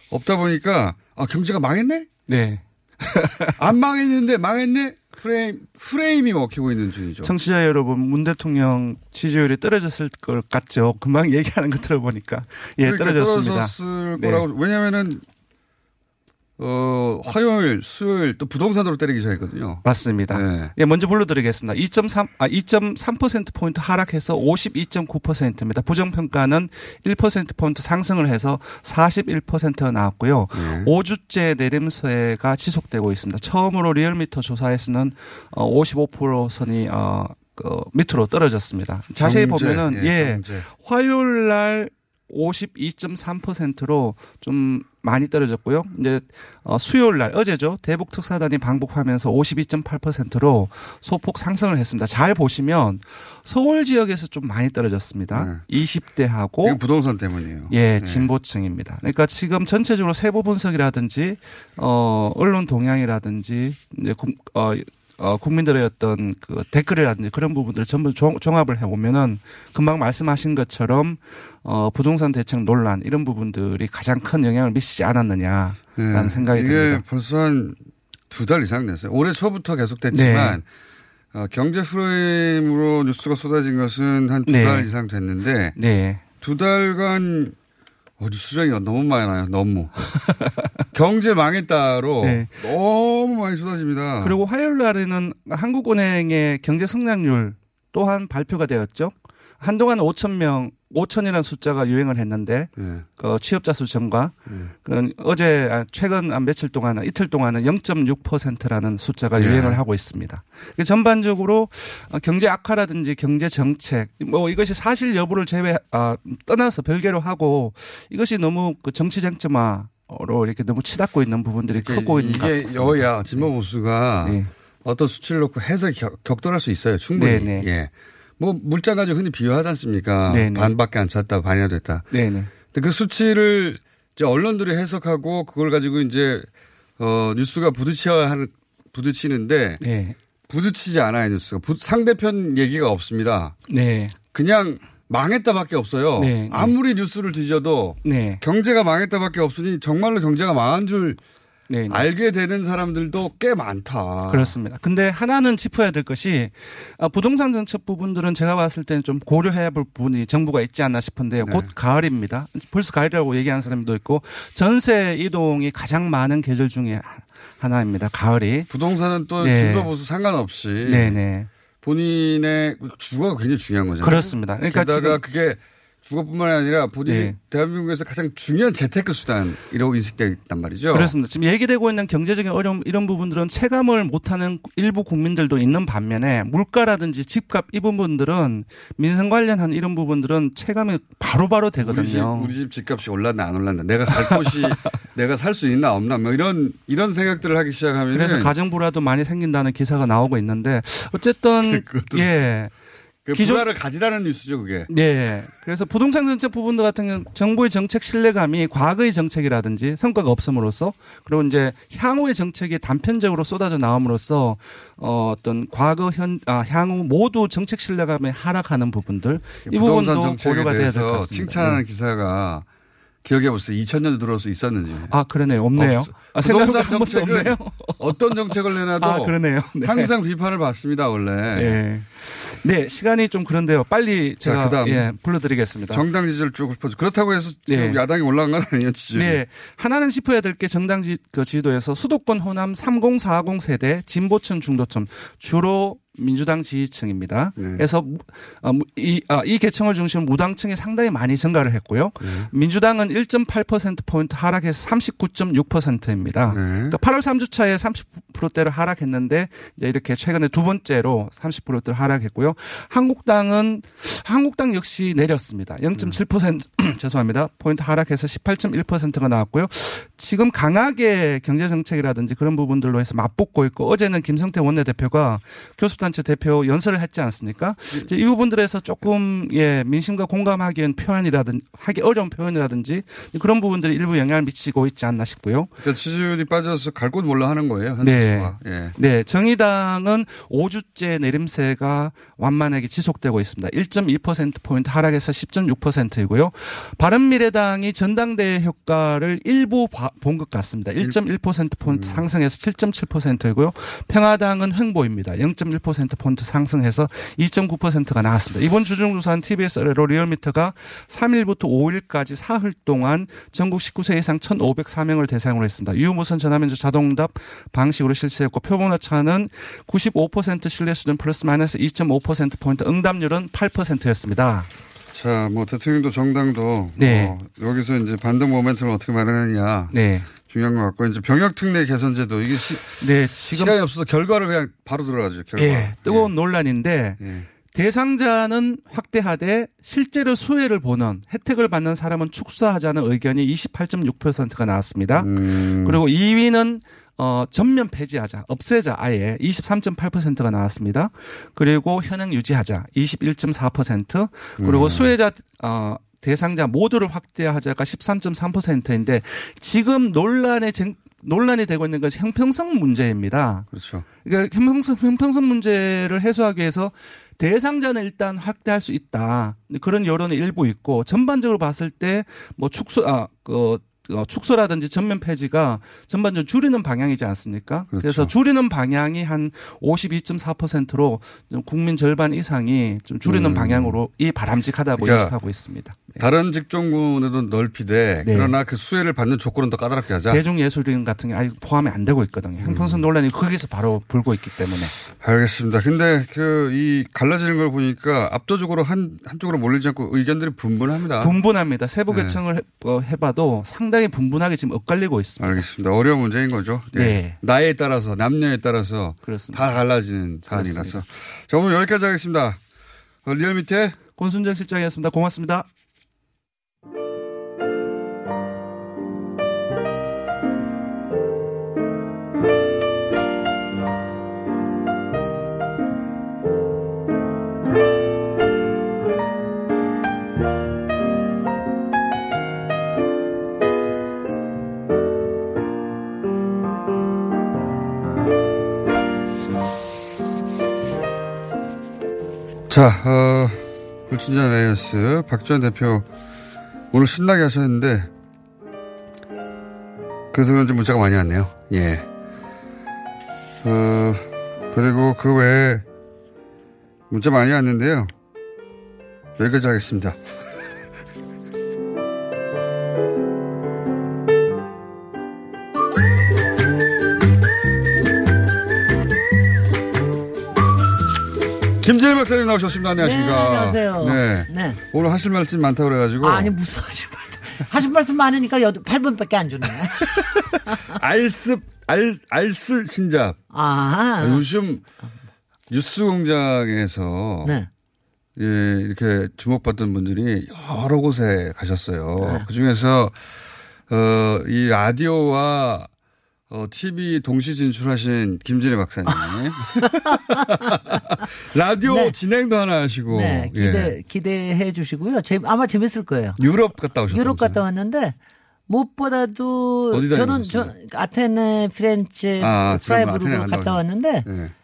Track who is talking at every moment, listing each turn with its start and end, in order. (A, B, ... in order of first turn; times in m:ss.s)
0:00.1-0:02.1 A
0:02.3-0:03.6 B
0:03.6-0:07.3 A
0:07.2-0:14.5 B
0:12.8-0:15.2 A
0:16.6-0:20.7 A
0:19.8-0:56.8 B
0:30.5-0:30.9 A
0:39.2-0:40.7 A
0:55.3-0:55.6 A
0:56.6-0:58.3 A
0:57.7-1:17.0 B
1:16.0-1:17.8 A
1:18.3-1:20.6 A
1:20.1-1:20.6 B
1:21.3-1:25.8 A
1:24.5-1:24.9 B
1:25.8-1:26.2 B
1:26.4-1:27.6 A
1:28.2-1:30.0 A
1:30.9-1:34.4 A
1:32.2-1:32.5 B
1:34.2-2:03.5 B
1:42.8-1:43.0 A
1:49.4-1:49.8 A
2:01.8-2:16.5 A
2:04.2-2:04.5 B
2:07.2-2:07.7 B
2:10.3-2:10.7 B
2:12.1-2:12.5 B
2:17.0-2:19.8 A
2:19.8-2:20.2 B
2:20.5-2:23.6 A
2:23.7-2:24.2 B
2:24.3-2:31.2 A
2:26.2-2:26.8 B
2:28.0-2:28.4 B
2:31.7-2:32.1 B
2:31.9-2:34.6 A
2:34.3-2:48.7 B
2:41.4-2:41.7 A
2:48.7-2:51.2 A
2:49.4-2:49.9 B
2:50.8-2:51.5 B
2:51.8-3:01.1 A
2:54.0-2:55.2 B
2:57.0-2:57.4 B
3:00.9-3:12.5 B
3:11.8-3:18.5 A
3:14.1-3:14.9 B
3:18.1-3:22.7 B
3:21.6-3:22.3 A
3:23.2-3:24.9 A
3:23.3-3:23.7 B
3:24.9-3:41.8 B
3:39.7-3:42.6 A
3:43.2-3:45.2 A
3:45.1-3:50.1 B
3:45.7-3:51.8 A
3:51.5-3:56.1 B
3:54.4-3:55.1 A
3:55.9-3:59.4 A
3:57.7-3:58.0 B
3:59.1-4:45.7 B
4:07.6-4:07.8 A
4:12.2-4:12.5 A
4:16.5-4:17.0 A
4:45.8-4:49.0 A
4:48.0-5:24.7 B
5:01.9-5:02.3 A
5:25.1-5:36.3 A
5:27.0-5:27.4 B
5:29.9-5:30.3 B
5:33.0-5:33.8 B
5:35.6-6:03.7 B
5:37.2-5:37.5 A
5:45.2-5:46.0 A
5:54.6-5:55.2 A
6:03.7-6:04.1 A
6:04.2-6:26.2 B
6:17.9-6:18.3 A
6:23.2-6:24.0 A
6:25.0-6:25.4 A
6:26.2-6:30.4 A
6:28.2-6:28.6 B
6:30.3-6:34.9 B
6:32.6-6:33.0 A
6:35.1-6:41.4 A
6:41.2-6:45.6 B
6:42.1-6:42.4 A
6:45.4-6:52.6 A
6:46.9-6:47.4 B
6:49.2-6:51.0 B
6:53.2-6:54.0 A
6:54.1-6:55.7 B
7:22.7-7:26.1 A
7:26.9-7:28.1 A
7:30.3-7:32.1 A
7:33.6-7:35.8 A
7:37.1-7:38.1 A
7:39.4-7:40.2 A
7:51.8-7:56.6 A
7:53.0-7:54.8 C
7:56.2-8:01.0 C
8:00.9-8:03.4 A
8:03.5-8:04.4 C
8:04.2-8:04.8 A
8:05.7-8:07.6 A
8:07.4-8:07.7 C
8:08.4-8:13.2 A
8:12.2-8:12.5 C
8:13.9-8:15.9 A
8:16.5-8:19.9 A
8:19.1-8:20.8 C
8:20.5-8:24.0 A
8:21.8-8:22.2 C
8:23.1-8:26.4 C
8:26.4-8:27.6 A
8:26.9-8:28.2 C
8:28.7-8:34.3 C
8:29.9-8:30.7 A
8:32.4-8:34.5 A